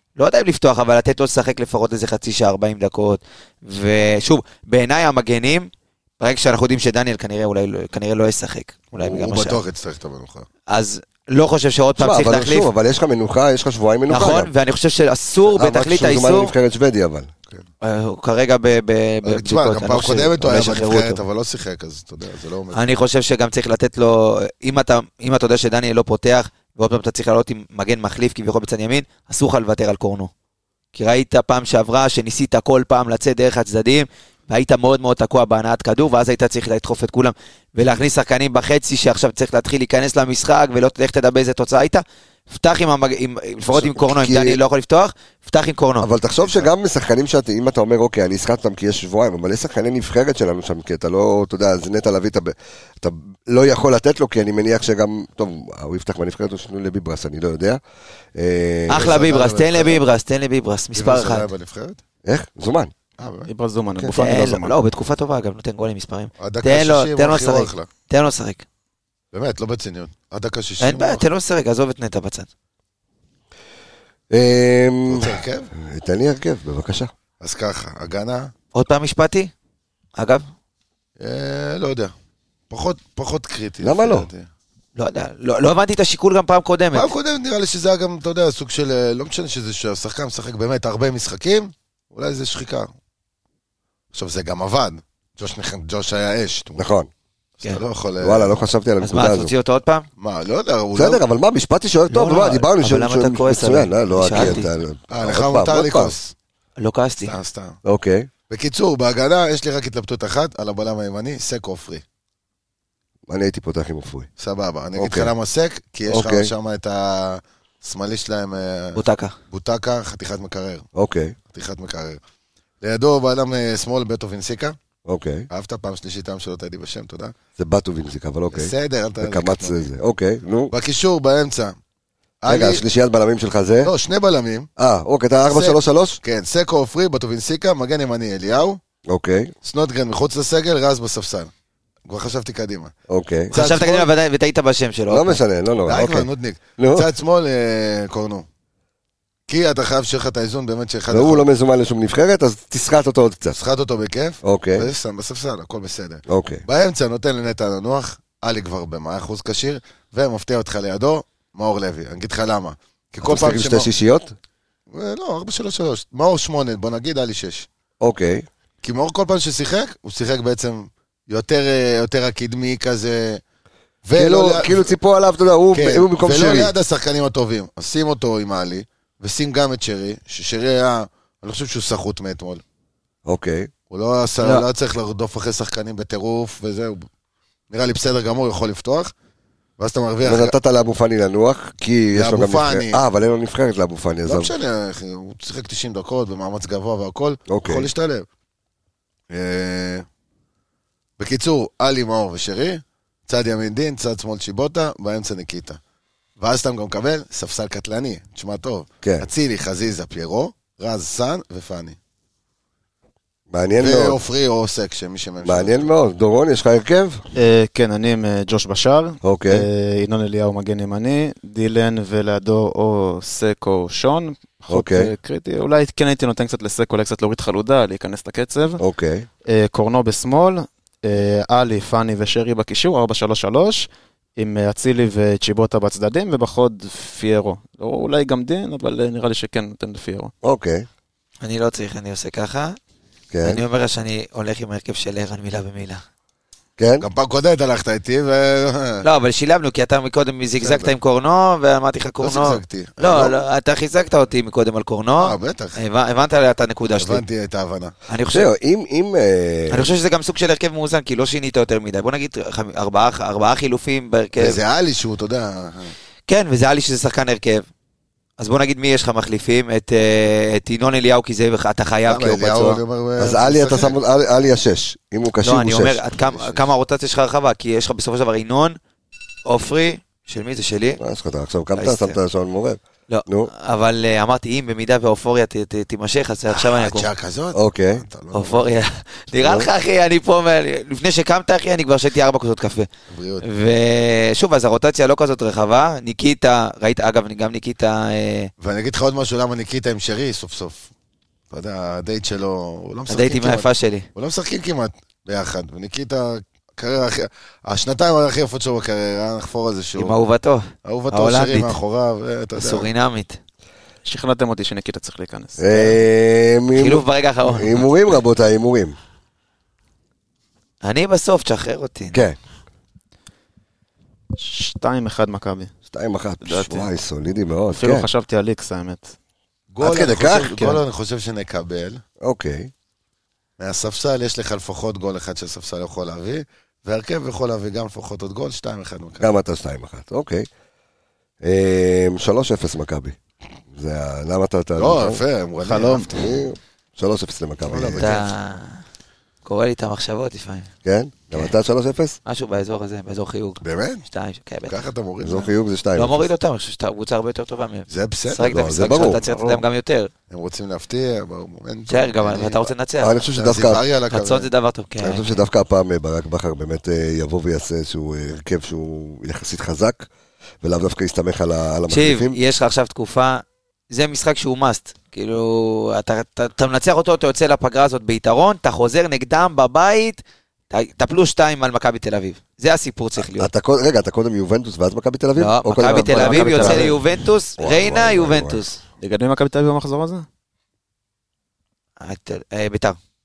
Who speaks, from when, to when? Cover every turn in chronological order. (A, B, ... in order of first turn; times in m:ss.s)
0:00.2-0:09.6 A
0:08.9-0:10.5 B
0:10.7-0:12.7 A
0:12.0-0:14.5 C
0:14.1-0:16.5 A
0:15.5-0:17.3 C
0:17.8-0:21.2 A
0:19.2-0:22.8 B
0:22.7-0:30.3 A
0:31.0-0:46.1 A
0:43.7-0:44.6 C
0:46.0-0:57.8 C
0:58.4-0:59.1 C
0:58.9-1:01.5 A
0:58.9-1:00.0 B
1:01.0-1:02.0 B
1:02.2-1:02.9 C
1:03.2-1:03.5 B
1:03.5-1:04.8 D
1:04.1-1:08.6 A
1:06.4-1:07.9 B
1:09.3-1:11.2 B
1:10.8-1:12.5 A
1:14.3-1:17.1 C
1:15.1-1:15.7 B
1:17.4-1:18.5 B
1:18.7-1:19.5 A
1:20.2-1:20.4 A
1:21.2-1:22.1 B
1:22.7-1:24.5 B
1:23.8-1:24.3 C
1:25.0-1:27.1 A
1:26.9-1:32.9 B
1:34.1-1:36.9 B
1:36.8-1:37.1 C
1:37.6-1:38.6 B
1:38.2-1:39.5 C
1:39.0-1:40.1 A
1:40.2-1:41.2 B
1:41.0-1:46.2 C
1:42.1-1:44.7 A
1:44.3-1:44.6 B
1:45.1-1:46.3 B
1:46.8-1:47.3 A
1:47.2-1:47.8 B
1:47.8-1:48.3 C
1:48.5-1:52.0 B
1:53.3-1:54.3 C
1:54.4-2:00.8 B
1:55.0-1:55.3 C
1:56.1-1:56.5 C
1:59.0-1:59.3 A
2:01.0-2:01.4 C
2:01.5-2:02.2 B
2:02.8-2:04.8 B
2:05.1-2:05.5 C
2:05.5-2:07.4 B
2:07.6-2:10.7 C
2:08.5-2:09.9 B
2:10.7-2:11.8 B
2:12.4-2:12.8 B
2:12.5-2:13.9 C
2:13.8-2:14.7 B
2:14.8-2:16.2 C
2:15.5-2:18.8 B
2:19.1-2:19.5 C
2:19.6-2:21.5 B
2:22.1-2:22.9 B
2:23.1-2:23.5 C
2:23.5-2:24.1 B
2:23.5-2:25.4 A
2:25.1-2:27.1 C
2:25.9-2:28.5 B
2:29.5-2:31.4 B
2:31.1-2:33.6 C
2:33.5-2:43.9 B
2:34.4-2:34.9 C
2:36.3-2:36.6 C
2:43.2-2:44.3 C
2:44.9-2:47.7 B
2:48.0-2:48.5 C
2:48.8-2:53.4 B
2:54.0-2:54.9 B
2:54.2-2:56.7 C
2:55.7-3:02.6 B
3:03.3-3:03.7 C
3:03.9-3:07.1 B
3:07.7-3:09.1 B
3:09.8-3:10.5 B
3:10.2-3:14.5 C
3:12.2-3:13.0 B
3:14.3-3:18.3 B
3:17.5-3:17.9 C
3:19.3-3:20.1 B
3:21.2-3:25.8 B
3:26.4-3:32.0 B
3:29.0-3:29.3 C
3:33.5-3:34.2 C
3:33.8-3:35.9 B
3:35.4-3:37.2 C
3:37.4-3:48.8 D
3:39.2-3:39.7 C
3:44.7-3:45.1 C
3:48.8-3:49.3 C
3:49.5-4:00.3 D
4:00.4-4:00.9 C
4:01.4-4:02.8 A
4:03.3-4:03.6 C
4:03.4-4:06.0 A
4:06.8-4:07.0 C
4:07.0-4:09.1 B
4:09.0-4:17.2 A
4:12.2-4:13.4 B
4:15.2-4:15.8 B
4:17.0-4:17.9 B
4:18.1-4:18.5 A
4:18.3-4:19.9 C
4:19.7-4:24.6 A
4:24.4-4:25.9 B
4:26.3-4:27.7 A
4:28.4-4:32.8 A
4:32.1-4:34.0 B
4:32.4-4:36.0 C
4:35.4-4:38.8 A
4:36.2-4:36.6 B
4:39.5-4:41.0 A
4:41.0-4:43.5 C
4:41.8-4:42.2 A
4:43.1-4:47.1 A
4:46.5-4:48.7 B
4:47.6-4:48.0 C
4:48.3-4:52.9 A
4:49.4-4:49.7 C
4:53.1-4:53.4 B
4:53.4-4:58.5 A
4:58.6-5:00.9 B
5:01.5-5:10.2 B
5:03.1-5:04.1 A
5:10.0-5:11.8 A
5:10.8-5:12.9 B
5:12.6-5:13.4 A
5:14.0-5:15.8 D
5:15.6-5:19.0 C
5:16.8-5:17.9 A
5:20.8-5:22.2 A
5:22.1-5:22.4 C
5:24.3-5:25.7 D
5:25.9-5:28.1 C
5:26.4-5:26.9 D
5:27.7-5:29.1 D
5:29.7-5:32.0 B
5:29.8-5:30.8 C
5:32.2-5:32.7 C
5:33.6-5:39.3 B
5:39.2-5:40.5 C
5:41.4-5:43.2 C
5:43.7-5:45.2 C
5:44.8-5:46.2 B
5:45.7-5:46.0 D
5:45.8-5:48.1 C
5:47.7-5:48.3 B
5:48.0-5:48.8 A
5:49.4-5:50.7 A
5:50.8-5:52.2 C
5:52.3-5:54.8 A
5:53.6-5:54.1 B
5:54.7-5:55.5 B
5:55.2-5:56.3 C
5:56.0-6:00.1 A
5:57.9-5:58.4 B
5:58.4-5:59.2 C
5:59.2-5:59.6 D
6:00.3-6:02.7 B
6:01.9-6:03.2 A
6:03.0-6:03.8 C
6:03.4-6:04.5 B
6:04.1-6:05.3 A
6:05.0-6:10.1 C
6:10.6-6:12.4 C
6:11.9-6:23.5 A
6:23.4-6:27.0 C
6:25.4-6:28.8 A
6:25.8-6:27.0 D
6:27.6-6:28.6 C
6:29.0-6:30.3 D
6:32.0-6:33.0 A